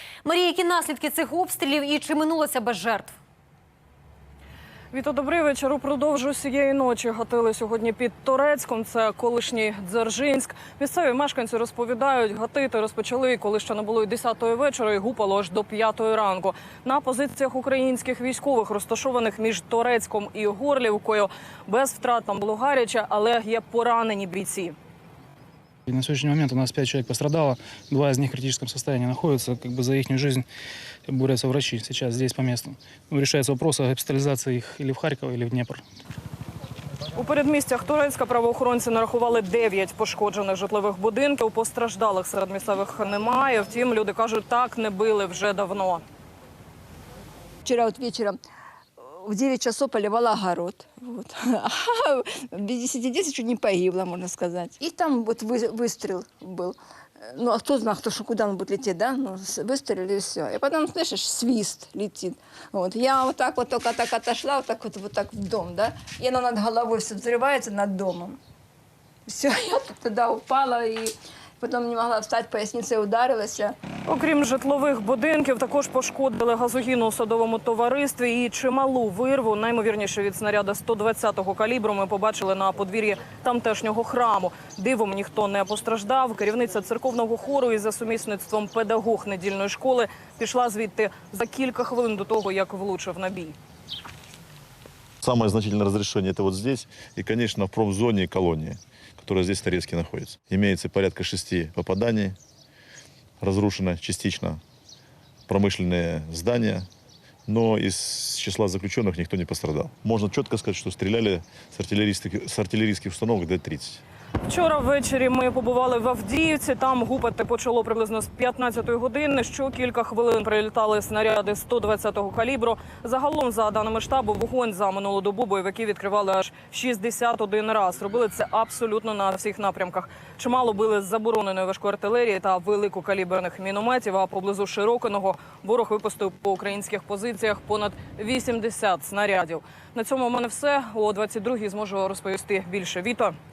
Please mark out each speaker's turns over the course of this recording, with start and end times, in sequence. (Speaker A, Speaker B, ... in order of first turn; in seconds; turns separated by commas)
Speaker A: 0.2-3.1, Speaker B: 4.9-24.8, Speaker C: 25.9-30.5, Speaker C: 31.1-35.8, Speaker B: 37.1-46.0, Speaker D: 47.6-48.4, Speaker D: 49.0-68.4, Speaker D: 69.3-73.8, Speaker B: 74.1-93.6, Speaker E: 95.2-102.4, Speaker E: 103.4-104.6, Speaker E: 105.5-106.9, Speaker E: 107.5-114.0, Speaker B: 114.5-143.3